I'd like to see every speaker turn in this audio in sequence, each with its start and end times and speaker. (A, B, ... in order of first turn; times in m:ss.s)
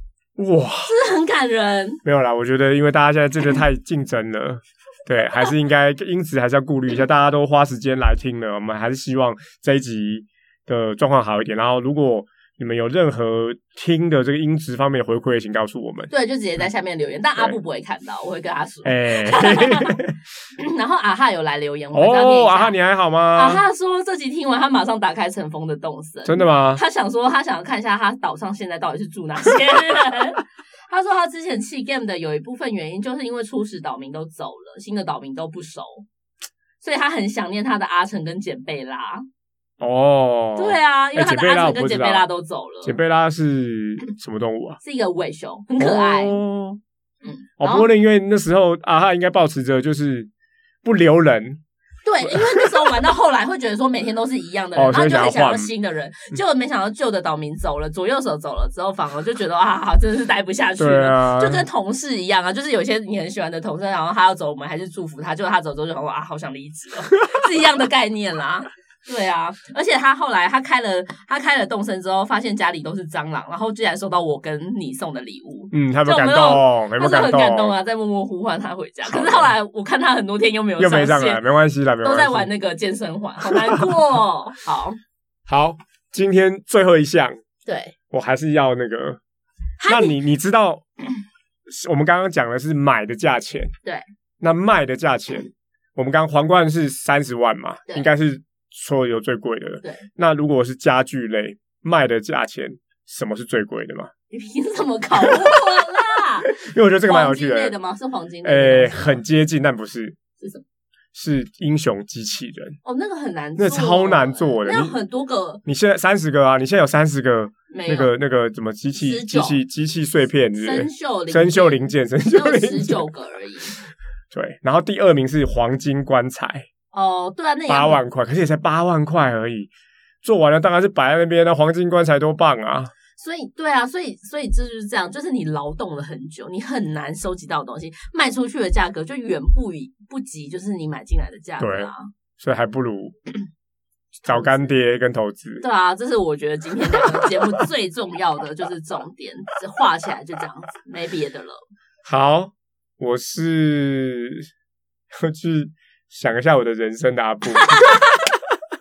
0:00.4-0:00.9 A
0:00.8-0:02.0 B
0:02.0-0:16.1 A
0:16.1-0:22.8 B
0:18.8-0:20.2 A
0:21.9-0:23.6 A
0:23.3-0:36.0 B
0:26.2-0:26.8 A
0:36.8-0:39.2 B
0:39.8-0:42.2 A
0:40.6-0:43.0 B
0:42.8-0:44.8 A
0:44.8-0:46.4 B
0:45.8-0:46.8 A
0:47.2-0:47.9 B
0:47.6-0:50.3 A
0:50.8-0:51.6 A
0:52.0-1:21.4 B
0:52.2-0:52.9 A
0:54.7-0:55.7 A
1:00.8-1:01.6 A
1:15.7-1:17.8 A
1:19.0-1:19.5 A
1:20.8-1:22.5 A
1:22.0-1:25.0 B
1:23.4-1:24.0 A
1:25.5-1:27.4 A
1:27.6-1:27.9 B
1:28.1-1:29.2 A
1:29.8-1:30.1 B
1:29.8-1:31.1 A
1:31.7-1:33.7 A
1:34.4-1:44.1 A
1:44.3-1:49.2 B
1:45.2-1:47.7 A
1:48.4-1:50.2 A
1:51.1-1:52.8 A
1:52.8-1:55.6 B
1:53.6-1:55.0 A
1:55.6-2:03.1 A
1:57.7-1:58.1 B
1:58.9-1:59.6 B
2:00.6-2:03.8 B
2:04.3-2:06.7 A
2:06.9-2:08.0 B
2:07.7-2:09.7 A
2:10.2-2:12.9 A
2:13.2-2:22.1 B
2:21.6-2:23.2 A
2:24.2-2:24.7 B
2:24.2-2:25.6 A
2:25.6-2:31.6 B
2:26.8-2:27.6 A
2:32.0-2:34.5 A
2:35.1-2:38.0 A
2:37.6-2:38.3 B